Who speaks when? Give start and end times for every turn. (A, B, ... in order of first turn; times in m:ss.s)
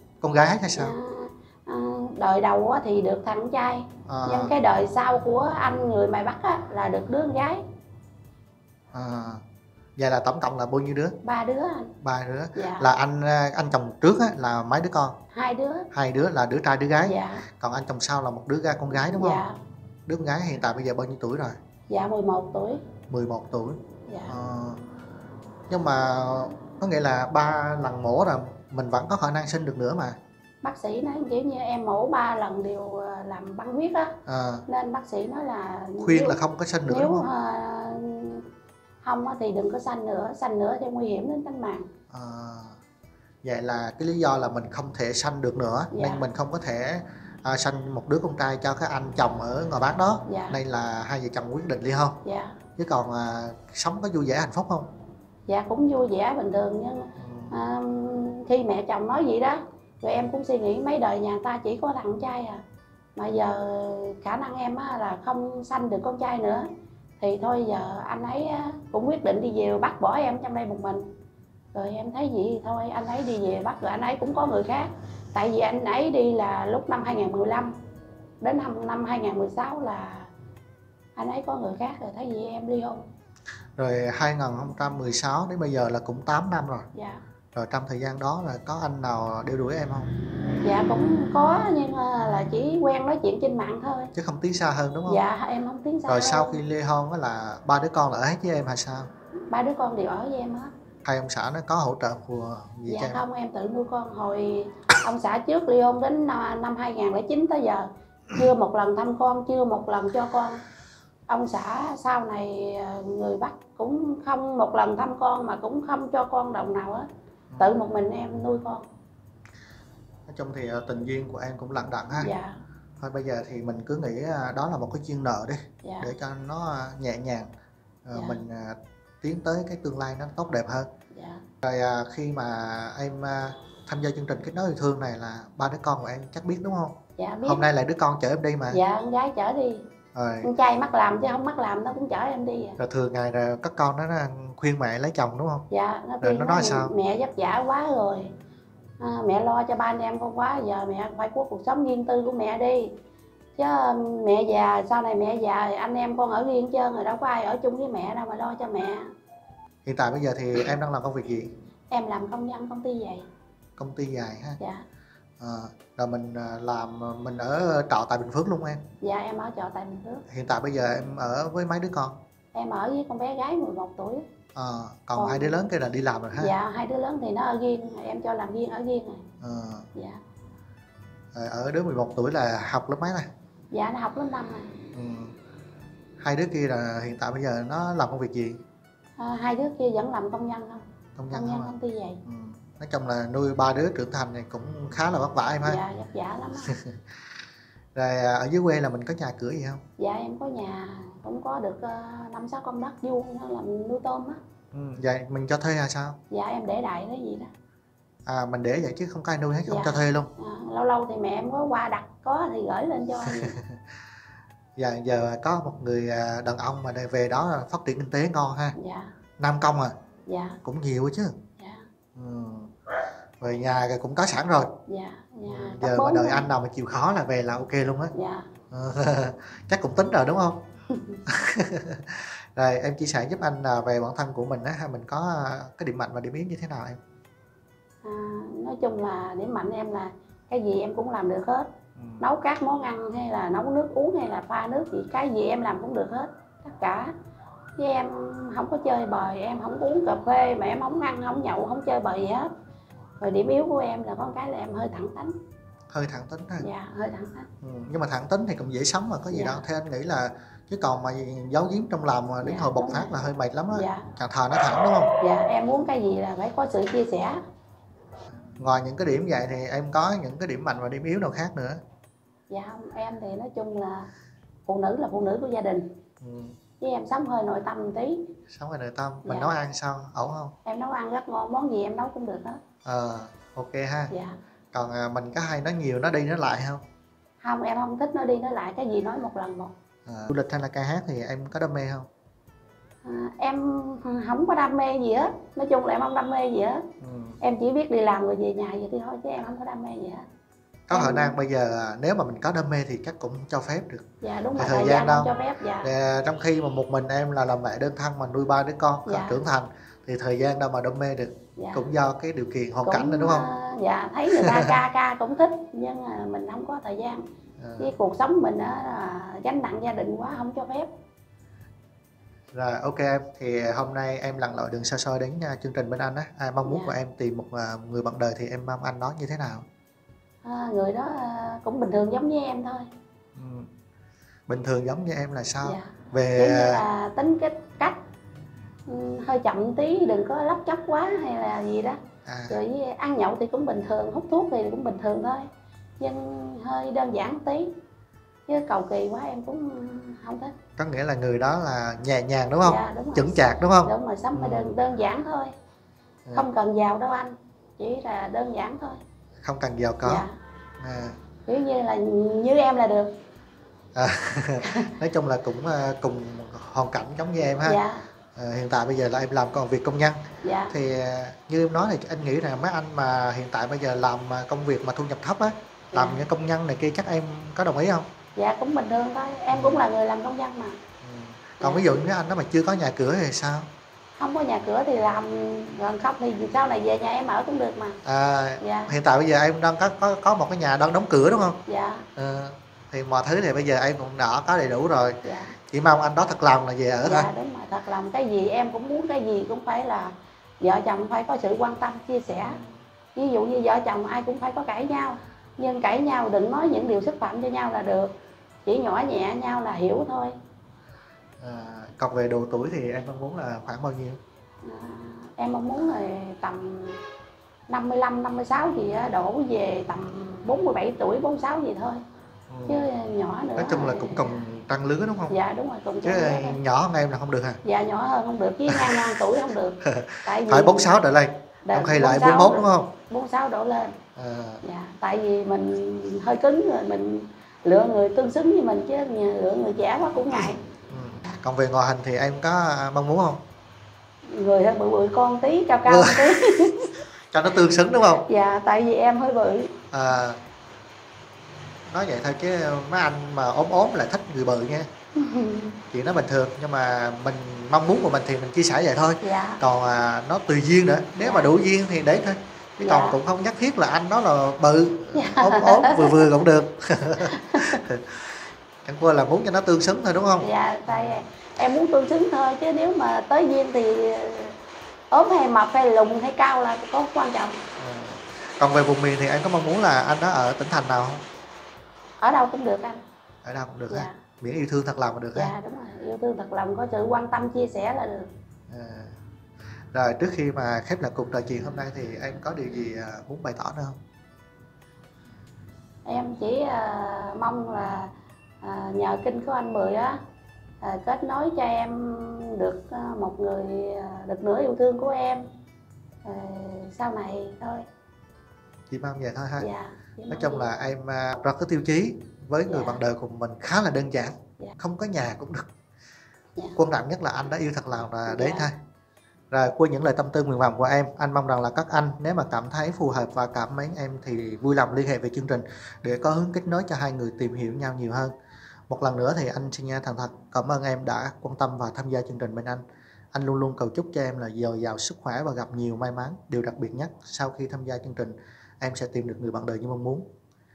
0:00.2-0:01.0 A
0:00.7-0:07.6 B
0:04.1-0:04.5 A
0:08.9-0:09.4 A
0:10.0-0:11.2 A
0:11.2-0:11.9 B
0:12.0-0:15.2 A
0:12.6-0:12.9 B
0:15.3-0:15.9 B
0:15.9-0:19.4 A
0:17.0-0:17.4 B
0:18.9-0:19.6 B
0:20.1-0:21.6 A
0:21.9-0:22.8 B
0:23.1-0:24.8 A
0:24.1-0:24.3 B
0:25.7-0:30.2 A
0:30.6-0:38.5 B
0:34.3-0:34.6 A
0:36.0-0:37.2 A
0:39.0-0:41.9 B
0:42.1-0:42.8 A
0:43.4-0:52.2 A
0:45.9-0:46.2 B
0:50.3-0:50.6 B
0:52.2-0:52.6 B
0:52.8-0:54.9 A
0:55.5-1:02.6 B
0:57.2-0:57.5 A
1:03.2-1:06.7 B
1:07.2-1:11.1 B
1:11.7-1:17.7 B
1:18.4-1:20.3 B
1:21.2-1:23.0 B
1:23.8-1:26.9 A
1:26.9-1:27.2 B
1:27.6-1:30.1 A
1:30.6-1:34.1 B
1:34.1-1:35.2 A
1:35.1-1:36.6 B
1:36.1-1:39.1 A
1:39.5-1:40.7 B
1:41.0-1:43.2 A
1:42.9-1:50.6 B
1:51.3-1:57.1 B
1:57.5-1:57.8 A
1:57.6-1:58.8 B
2:00.3-2:02.3 A
2:02.2-2:02.6 B
2:03.0-2:07.5 A
2:05.8-2:06.1 B
2:08.0-2:10.9 A
2:08.1-2:08.4 B
2:11.1-2:11.4 B
2:11.6-2:18.8 A
2:17.2-2:17.6 B
2:18.7-2:19.9 B
2:20.1-2:20.5 A
2:20.4-2:22.8 B
2:22.8-2:25.7 A
2:25.7-2:28.3 B
2:26.2-2:26.9 A
2:29.0-2:33.0 B
2:33.6-2:39.0 B
2:39.8-2:41.5 A
2:41.9-2:43.2 B
2:43.8-2:44.6 A
2:45.4-2:48.8 A
2:49.0-2:50.2 B
2:50.3-2:52.2 A
2:52.5-2:54.3 B
2:54.6-2:56.6 A
2:55.2-2:55.5 B
2:56.4-2:59.2 B
2:59.4-2:59.9 A
3:00.0-3:00.2 B
3:01.3-3:03.3 A
3:03.7-3:04.8 B
3:04.9-3:05.4 A
3:06.2-3:08.6 A
3:09.2-3:12.2 B
3:11.2-3:11.7 A
3:12.3-3:15.8 A
3:15.6-3:16.8 B
3:16.6-3:17.0 A
3:18.0-3:19.8 A
3:20.0-3:24.4 B
3:24.7-3:26.2 A
3:26.3-3:27.5 B
3:28.3-3:30.3 A
3:29.7-3:33.6 B
3:33.3-3:33.8 A
3:34.8-3:38.8 A
3:38.8-3:39.1 B
3:39.4-3:40.0 A
3:40.3-3:40.6 B
3:40.6-3:41.4 A
3:41.6-3:41.8 B
3:42.2-3:42.7 A
3:43.4-3:44.7 A
3:44.9-3:46.5 B
3:45.5-3:48.1 A
3:48.1-3:48.5 B
3:48.7-3:50.6 A
3:50.9-3:51.2 B
3:51.3-3:57.0 A
3:58.0-4:01.7 B
4:02.0-4:02.2 A
4:02.2-4:07.1 B
4:07.8-4:12.5 B
4:13.2-4:15.4 B
4:15.9-4:16.7 A
4:16.6-4:17.5 B
4:17.6-4:25.1 A
4:19.3-4:19.6 B
4:22.4-4:23.2 B
4:23.7-4:24.1 B
4:25.2-4:27.4 B
4:28.6-4:31.8 A
4:32.5-4:34.1 B
4:34.7-4:35.9 B
4:36.2-4:36.6 A
4:36.8-4:38.3 B
4:38.5-4:40.6 A
4:39.2-4:39.6 B
4:40.6-4:42.6 B
4:42.8-4:44.1 A
4:44.1-4:44.4 B
4:44.7-4:46.8 A
4:47.4-4:49.7 B
4:50.1-4:52.1 A
4:53.0-4:56.9 B
4:57.0-4:57.4 A
4:57.4-5:00.2 B
5:00.9-5:13.5 A
5:00.9-5:01.4 B
5:04.2-5:05.9 B
5:09.1-5:09.4 B
5:11.6-5:11.8 B
5:12.8-5:17.2 B
5:14.5-5:14.8 A
5:17.6-5:17.9 A
5:17.8-5:20.9 B
5:22.5-5:29.7 A
5:26.6-5:27.0 B
5:30.4-5:32.9 B
5:33.4-5:33.7 A
5:34.5-5:36.8 A
5:35.6-5:38.0 B
5:38.9-5:42.0 B
5:42.2-5:42.6 A
5:42.5-5:45.5 B
5:46.0-5:47.7 B
5:48.5-5:50.5 B
5:50.8-5:54.8 A
5:52.6-5:55.5 B
5:56.3-5:59.0 B
5:59.4-6:00.3 A
6:00.0-6:00.3 B
6:00.8-6:01.2 A
6:01.5-6:03.2 B
6:04.0-6:07.8 A
6:04.6-6:04.9 B
6:07.6-6:08.0 B
6:08.4-6:18.1 A
6:10.4-6:10.7 B
6:15.9-6:16.2 B
6:18.4-6:20.8 B
6:19.5-6:19.8 A
6:21.0-6:23.7 A
6:21.6-6:21.8 B
6:24.2-6:28.0 B
6:28.0-6:31.6 A
6:28.6-6:28.9 B
6:31.7-6:32.1 B
6:32.2-6:37.3 A
6:35.2-6:35.6 B
6:37.0-6:42.6 B
6:42.4-6:42.8 A
6:43.2-6:50.4 B
6:51.4-6:54.2 A
6:54.6-6:57.0 B
6:57.7-7:02.0 B
7:02.5-7:02.9 A
7:02.7-7:04.4 B
7:03.6-7:05.4 A
7:05.3-7:06.6 B
7:06.0-7:07.6 A
7:07.6-7:10.9 B
7:08.7-7:09.1 A
7:09.8-7:12.9 A
7:11.6-7:14.0 B
7:14.2-7:14.6 A
7:14.6-7:20.6 B
7:20.9-7:23.4 A
7:24.3-7:26.9 B
7:25.9-7:26.7 A
7:27.3-7:28.3 A
7:28.3-7:29.7 B
7:29.9-7:30.4 A
7:31.9-7:34.9 A
7:35.2-7:35.8 B
7:35.9-7:51.2 A
7:39.2-7:39.6 B
7:41.2-7:41.5 B
7:42.8-7:43.2 B
7:45.1-7:46.3 B
7:47.2-7:47.8 B
7:50.4-7:54.6 B
7:55.1-7:57.6 B
7:57.8-8:01.2 A
8:02.2-8:03.0 B
8:03.4-8:05.5 A
8:03.9-8:04.2 B
8:05.4-8:08.3 B
8:08.7-8:09.2 A
8:09.9-8:14.0 A
8:16.0-8:20.2 B
8:20.8-8:25.5 B
8:26.2-8:27.8 B
8:28.9-8:29.7 A
8:29.6-8:30.7 B
8:30.3-8:35.7 A
8:32.7-8:33.0 B
8:36.8-8:38.8 A
8:38.3-8:38.7 B
8:39.5-8:48.3 A
8:48.9-9:00.3 A